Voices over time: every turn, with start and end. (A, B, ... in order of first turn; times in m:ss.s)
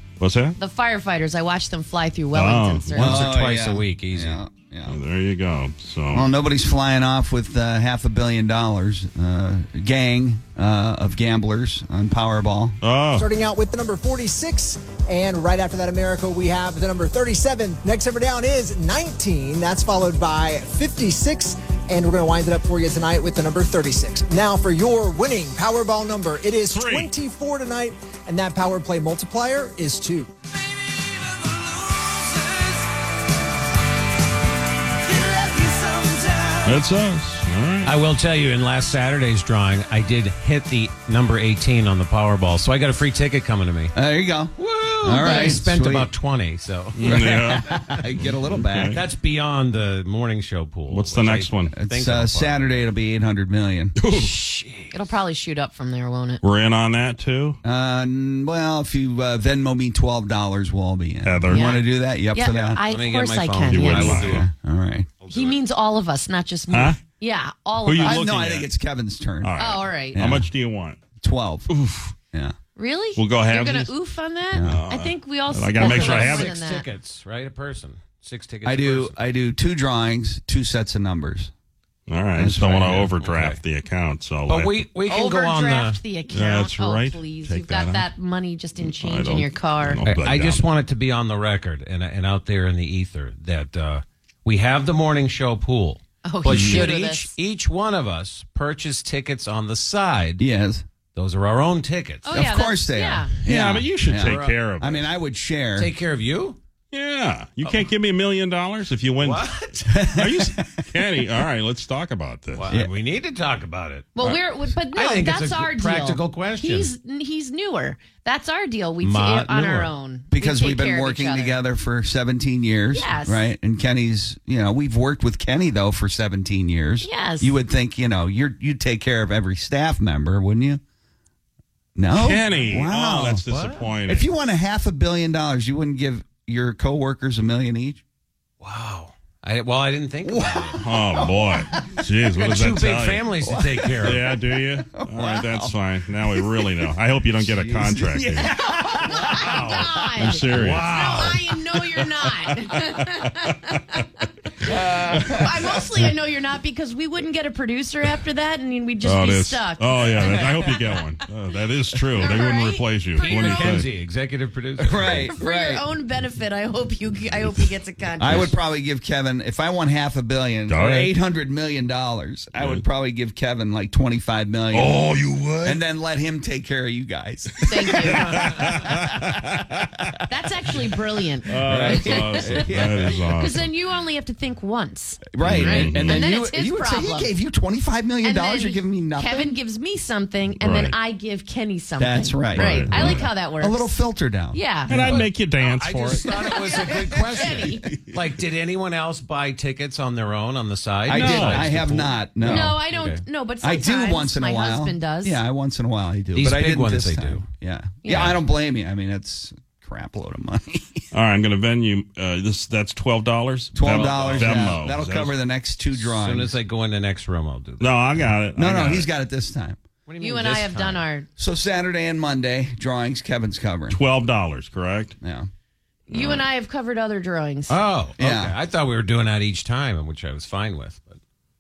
0:00.2-0:00.6 A
0:00.6-0:03.2 B
0:02.3-0:03.1 A
0:03.0-0:05.0 C
0:03.0-0:04.4 D
0:04.9-0:06.3 A
0:06.1-0:12.8 C
0:12.8-0:13.3 A
0:13.2-0:30.3 E
0:26.7-0:27.1 A
0:36.6-0:38.0 A
0:37.8-0:43.9 D
0:43.9-0:46.1 C
0:44.6-0:47.0 D
0:47.0-0:49.0 A
0:47.0-0:49.0 C
0:48.9-0:52.9 D
0:50.9-0:51.7 A
0:51.7-0:53.9 C
0:54.0-0:54.3 A
0:54.1-0:55.0 D
0:54.9-0:56.4 B
0:56.4-0:57.6 A
0:57.6-1:02.8 C
1:01.2-1:01.8 A
1:01.5-1:01.8 B
1:02.3-1:04.2 B
1:02.9-1:04.4 D
1:03.7-1:04.4 A
1:04.1-1:05.1 C
1:05.2-1:05.5 D
1:05.3-1:08.3 B
1:06.7-1:07.0 A
1:07.8-1:08.7 A
1:08.0-1:09.6 C
1:09.4-1:11.0 A
1:09.6-1:10.2 B
1:10.1-1:10.4 C
1:11.2-1:11.7 C
1:11.7-1:12.1 A
1:12.8-1:16.8 B
1:13.2-1:13.9 A
1:14.5-1:14.8 C
1:14.6-1:16.6 A
1:15.8-1:19.2 D
1:18.6-1:21.5 C
1:22.1-1:24.9 A
1:22.4-1:23.1 C
1:23.2-1:23.6 D
1:24.5-1:26.0 D
1:25.1-1:30.0 B
1:26.3-1:28.1 A
1:28.8-1:30.6 A
1:30.0-1:40.4 D
1:36.2-1:37.3 B
1:36.5-1:36.9 C
1:40.4-1:40.8 C
1:41.1-1:42.3 D
1:42.2-1:43.3 B
1:42.3-1:45.9 C
1:43.4-1:45.1 A
1:44.2-1:44.6 D
1:45.8-1:46.6 D
1:46.9-1:52.7 A
1:49.2-1:49.8 D
1:49.9-1:50.6 C
1:52.6-1:54.3 D
1:54.1-2:01.6 B
1:54.9-1:56.9 D
1:59.0-1:59.9 D
2:00.3-2:10.8 C
2:02.9-2:03.4 B
2:07.0-2:07.5 B
2:12.0-2:13.4 C
2:12.1-2:14.3 A
2:13.5-2:13.9 D
2:14.1-2:18.0 C
2:18.6-2:20.8 D
2:20.2-2:21.6 C
2:20.8-2:23.3 A
2:22.4-2:24.2 D
2:23.4-2:24.1 C
2:24.0-2:28.5 A
2:24.9-2:25.7 C
2:26.3-2:26.9 C
2:27.4-2:29.7 C
2:29.0-2:34.1 B
2:29.2-2:29.9 D
2:30.2-2:31.0 A
2:30.5-2:31.4 D
2:34.7-2:40.8 B
2:34.7-2:35.5 C
2:39.0-2:43.9 A
2:42.2-2:43.8 B
2:43.2-2:45.3 D
2:44.8-2:45.8 C
2:45.3-2:48.5 B
2:48.2-2:55.0 C
2:50.7-2:51.1 A
2:52.6-2:52.8 A
2:54.7-2:55.8 A
2:55.6-2:58.9 C
2:57.7-2:58.4 B
2:58.3-2:58.6 D
2:58.5-2:59.4 A
3:00.3-3:02.6 B
3:01.5-3:03.7 A
3:01.6-3:03.3 C
3:03.3-3:07.3 B
3:05.3-3:09.5 C
3:05.4-3:06.3 A
3:08.2-3:13.9 B
3:10.6-3:10.9 A
3:12.0-3:15.1 C
3:12.5-3:13.3 A
3:14.5-3:14.9 B
3:14.9-3:16.3 A
3:14.9-3:23.2 D
3:16.5-3:17.9 B
3:21.1-3:22.8 C
3:21.1-3:21.8 A
3:22.4-3:25.4 B
3:23.6-3:31.0 C
3:26.3-3:27.4 D
3:28.0-3:28.4 B
3:31.1-3:35.4 A
3:33.7-3:36.5 C
3:34.0-3:34.7 D
3:36.0-3:38.0 D
3:37.8-3:39.1 A
3:38.6-3:39.8 C
3:40.1-3:41.1 D
3:40.2-3:41.3 B
3:41.4-3:44.0 C
3:43.9-3:45.2 A
3:45.2-3:45.5 C
3:46.1-3:46.5 A
3:46.1-3:47.8 B
3:47.7-3:51.2 D
3:48.2-3:48.5 C